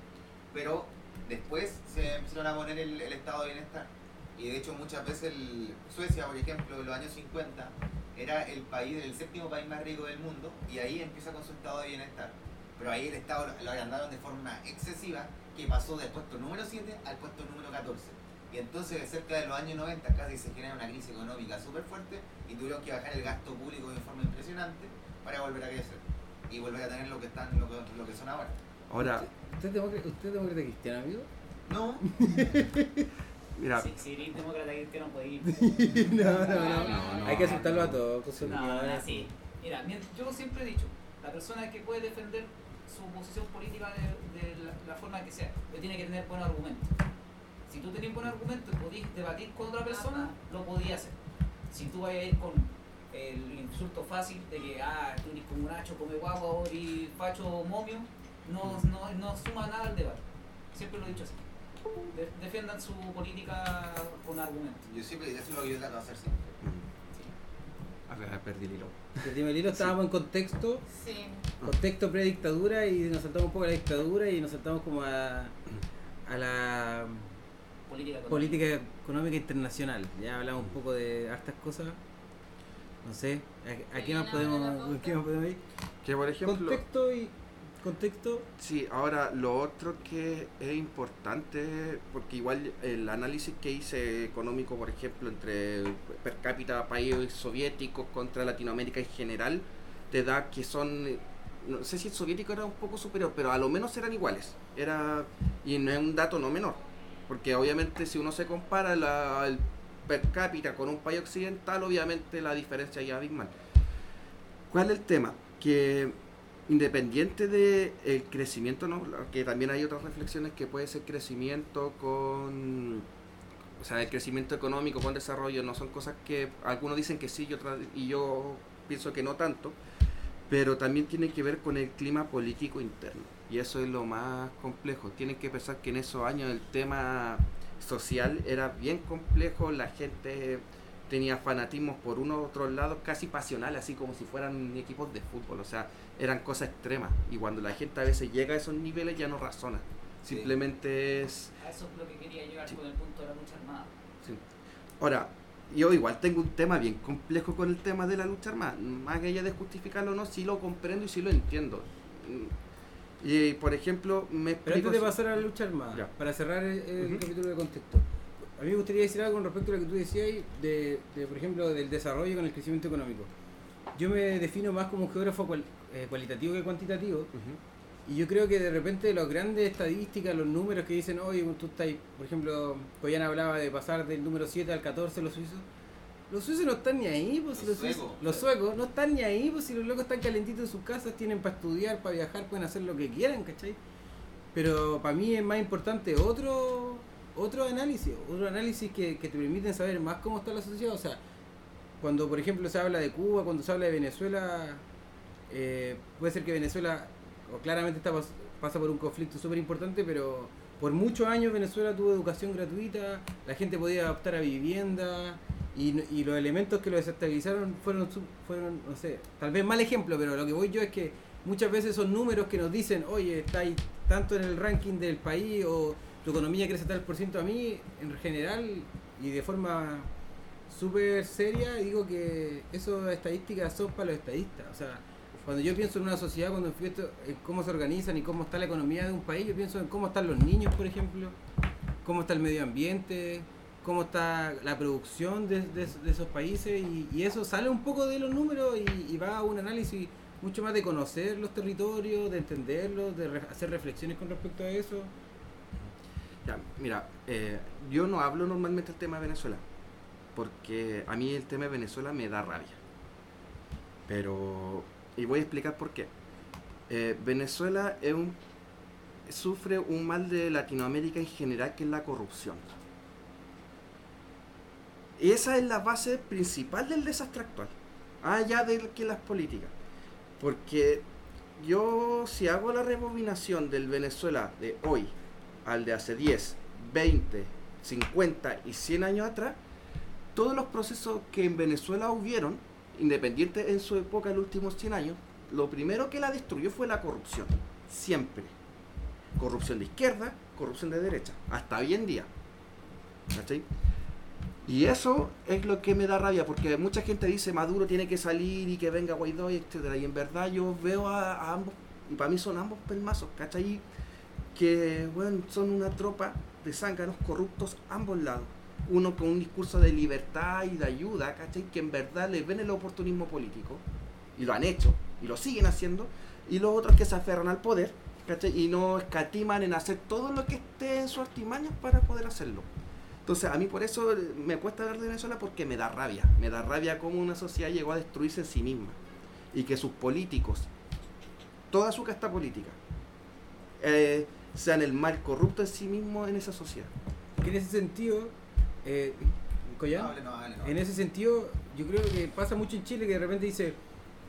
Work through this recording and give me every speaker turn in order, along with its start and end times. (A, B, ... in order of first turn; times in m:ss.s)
0:00.5-0:28.6 A
0:28.9-0:29.3 B
0:29.0-0:31.3 C
0:31.6-0:32.4 A
0:32.0-0:33.1 C
0:33.6-0:33.9 B
0:33.7-0:46.9 D
0:35.4-0:39.3 C
0:36.7-0:37.5 A
0:37.3-0:38.5 B
0:47.7-0:51.2 D
0:49.8-0:50.2 E
0:51.7-1:01.4 D
1:02.1-1:04.8 D
1:04.8-1:06.6 A
1:06.6-1:06.9 B
1:08.1-1:09.9 B
1:09.2-1:10.8 C
1:10.9-1:11.4 E
1:11.6-1:15.5 C
1:16.2-1:17.3 C
1:17.9-1:18.7 D
1:18.3-1:22.0 C
1:23.0-1:25.6 C
1:23.9-1:25.2 E
1:26.0-1:26.8 B
1:26.4-1:28.5 C
1:28.6-1:53.5 B
1:54.7-1:56.2 B
1:56.7-2:03.1 B
2:03.8-2:09.8 B
2:10.5-2:31.5 B
2:30.3-2:30.5 C
2:31.6-2:33.9 D
2:35.0-2:42.5 B
2:43.2-2:45.4 B
2:44.6-2:53.3 C
2:47.0-2:47.2 B
2:53.9-2:57.3 C
2:57.3-2:57.6 B
2:58.0-3:05.6 C
3:06.3-3:13.8 C
3:07.5-3:08.4 A
3:14.5-3:21.2 C
3:22.0-3:24.8 C
3:25.5-3:50.1 C
3:50.7-4:01.4 C
4:02.0-4:15.1 C
4:16.4-4:19.6 B
4:20.3-4:22.8 B
4:24.1-4:26.1 B
4:26.9-4:28.4 B
4:29.3-4:32.7 B
4:35.2-4:39.7 B
4:40.4-4:41.0 B
4:41.6-4:45.1 B
4:45.6-4:49.6 B
4:50.3-4:58.5 B
4:59.4-5:02.3 B
5:03.3-5:03.6 B
5:04.6-5:13.8 B
5:14.5-5:23.8 B
5:24.4-5:32.7 B
5:33.2-5:39.0 B
5:39.5-5:40.7 B
5:41.7-5:42.8 B
5:43.8-5:46.9 B
5:47.4-5:53.8 C
5:49.9-5:50.8 A